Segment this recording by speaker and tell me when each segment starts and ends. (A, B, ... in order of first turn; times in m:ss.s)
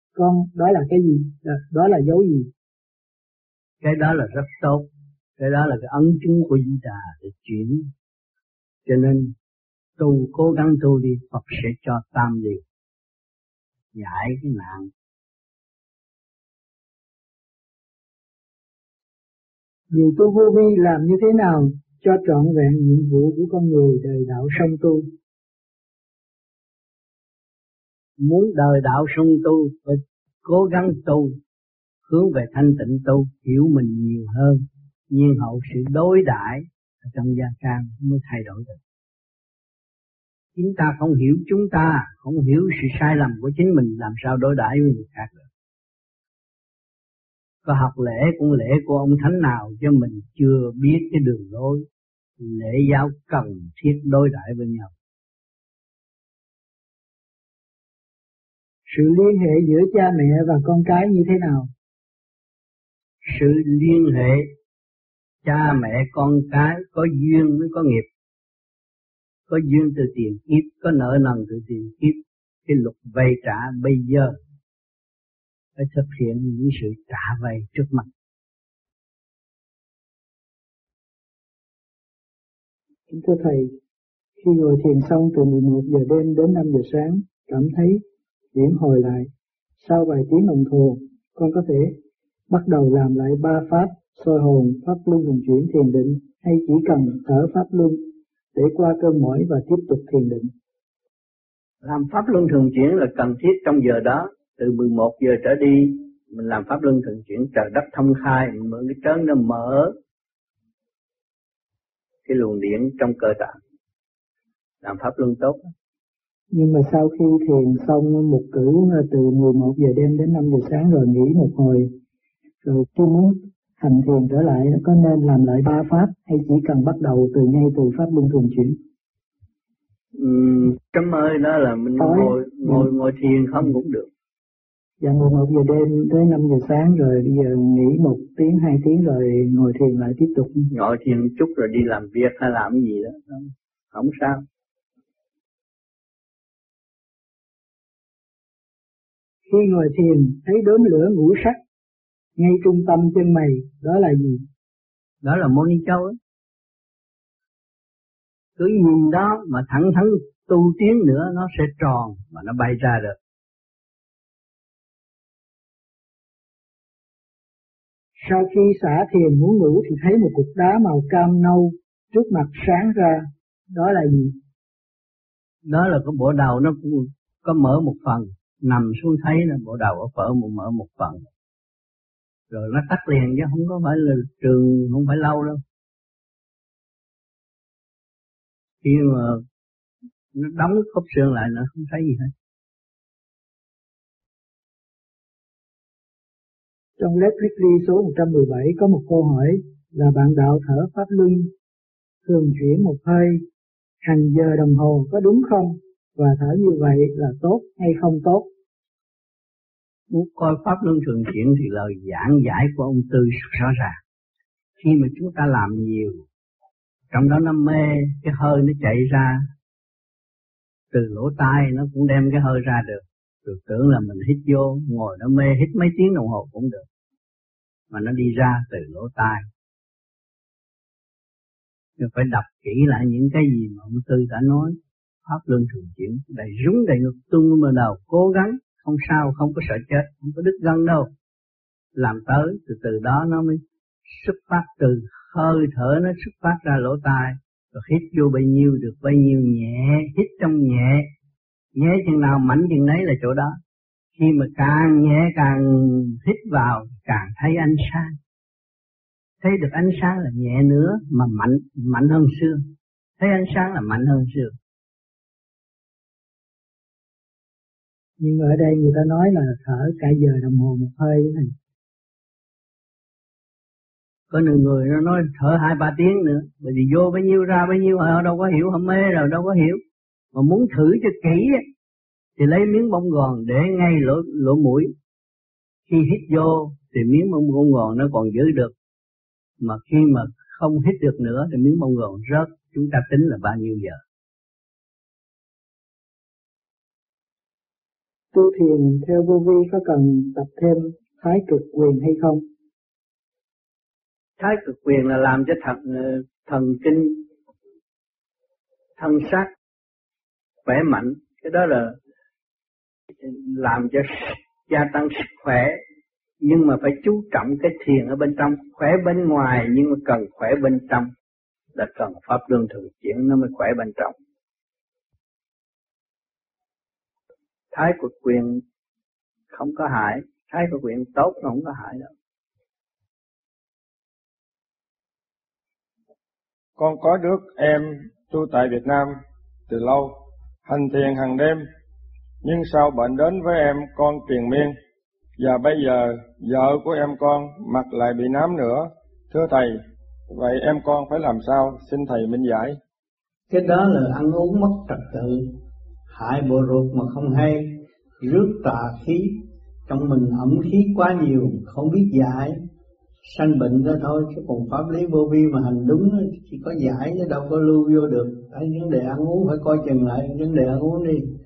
0:00.1-0:02.5 A
0:03.8-0:07.9 B
0:08.8-0:09.3 B
0:10.0-0:12.6 B
0:13.9-0:14.9 B
0:19.9-0:25.1 A
0:28.2-0:31.4 B
0:32.0-0:38.8 B
0:40.6-0:45.5 B
0:47.6-0:51.9 B
0:52.4-0:54.9 B
0:58.9-1:01.7 A
1:03.2-1:04.5 B
1:05.4-1:08.1 B
1:09.5-1:14.4 B
1:15.8-1:18.1 B
1:23.1-1:23.7 A
1:24.4-1:28.0 A
1:28.5-1:32.0 A
1:32.5-1:40.5 A
1:41.8-1:49.9 B
1:52.2-1:53.6 B
1:54.8-1:55.6 B
1:56.5-2:01.9 A
2:02.6-2:08.8 A
2:10.2-2:14.1 B
2:12.0-2:12.9 A
2:15.0-2:20.7 A
2:20.7-2:24.4 B
2:29.5-2:31.6 A
2:32.4-2:34.4 A
2:35.2-2:36.2 B
2:38.6-2:43.2 B
2:48.2-2:54.4 A
2:55.6-3:01.3 B
3:02.5-3:05.6 B
3:08.8-3:09.4 B
3:10.3-3:12.3 B
3:17.0-3:21.5 A
3:22.2-3:23.4 A
3:24.0-3:28.5 A
3:30.1-3:34.0 B
3:34.8-3:36.2 B
3:37.1-3:39.4 B
3:40.9-3:46.8 B
3:47.9-3:49.4 B
3:52.0-4:01.1 B
4:01.9-4:11.1 B
4:11.7-4:13.6 B
4:14.2-4:18.2 B
4:19.4-4:22.6 B
4:23.2-4:24.5 B
4:28.2-4:31.5 A
4:34.3-4:39.8 B
4:40.3-4:41.6 B
4:42.4-4:44.9 B
4:45.9-4:48.7 B
4:49.6-4:54.0 B
4:58.3-5:02.4 A
5:04.4-5:07.2 B
5:09.0-5:09.5 B
5:10.6-5:11.9 B
5:13.2-5:15.8 B
5:16.4-5:21.1 B
5:21.7-5:24.1 B
5:27.7-5:28.6 B
5:29.5-5:32.1 B
5:36.8-5:41.6 C
5:42.4-5:44.8 C
5:45.4-5:52.8 C
5:53.5-5:55.5 B
5:56.1-6:02.6 B
6:03.2-6:11.2 B